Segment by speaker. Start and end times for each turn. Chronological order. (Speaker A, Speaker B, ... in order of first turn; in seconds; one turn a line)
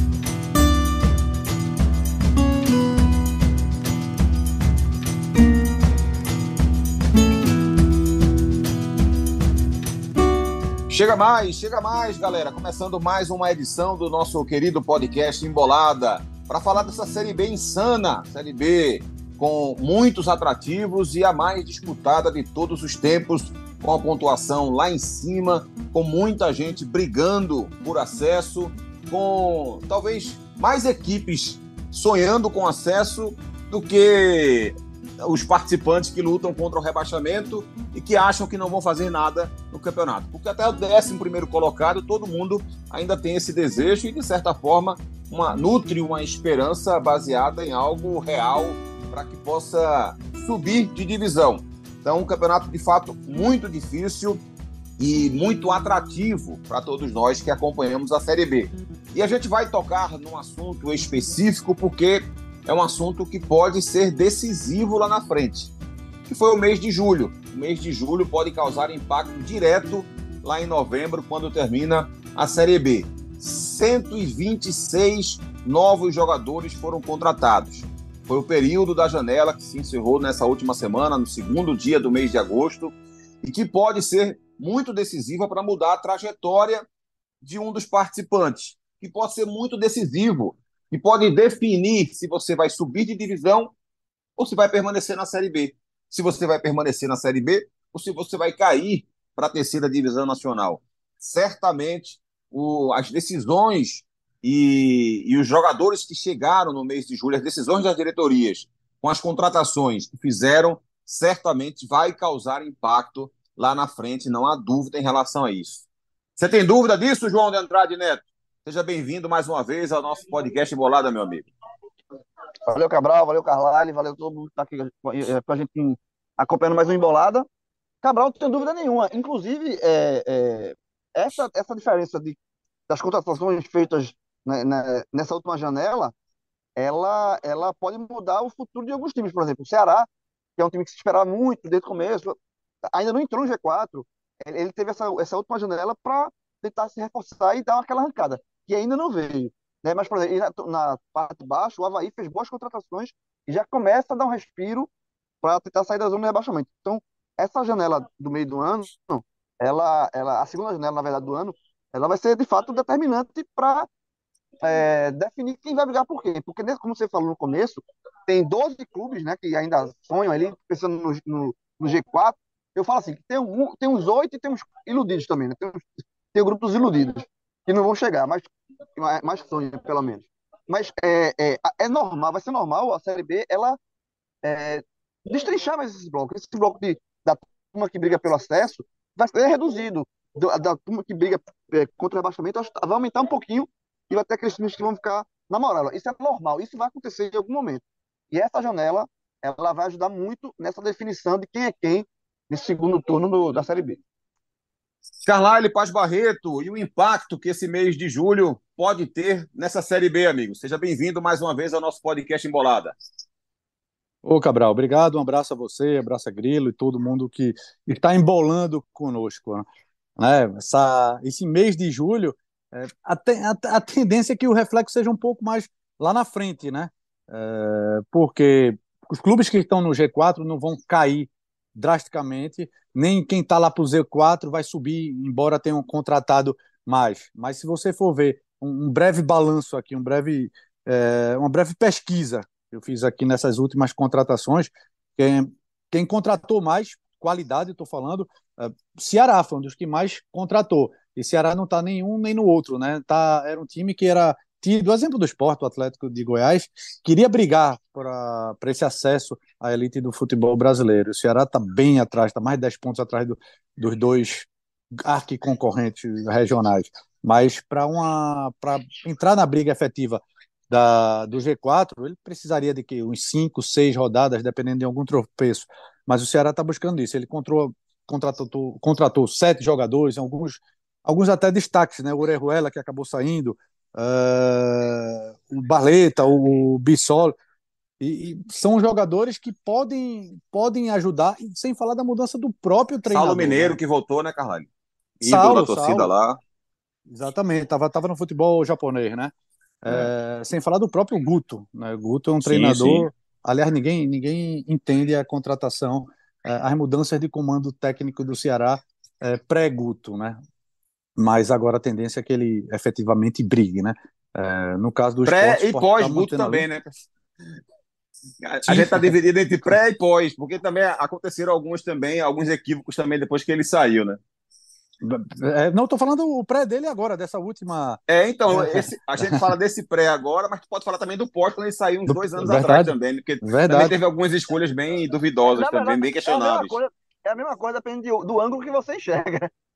Speaker A: 10.9-54.4
Speaker A: 55.0-65.7
Speaker A: 66.3-86.8
Speaker A: 87.4-93.7
Speaker A: 94.4-115.8
Speaker A: 116.4-121.5
Speaker B: 122.7-127.5
Speaker B: 128.0-132.4
Speaker B: 132.9-136.1
Speaker B: 136.8-154.9
Speaker B: 155.4-163.9
Speaker B: 164.6-183.8
Speaker B: 184.4-204.0
Speaker A: 205.2-212.9
Speaker C: 214.2-219.7
Speaker C: 220.2-264.5
Speaker C: 265.0-287.4
Speaker C: 288.0-293.8
Speaker A: 293.1-294.7
Speaker A: 295.2-296.4
Speaker C: 295.2-296.1
Speaker C: 297.1-310.4
Speaker A: 302.4-303.1
Speaker C: 311.2-316.7
Speaker A: 315.2-317.0
Speaker A: 318.4-324.2
Speaker C: 318.7-319.1
Speaker C: 325.0-329.5
Speaker A: 328.1-336.8
Speaker C: 332.1-334.0
Speaker B: 335.6-339.5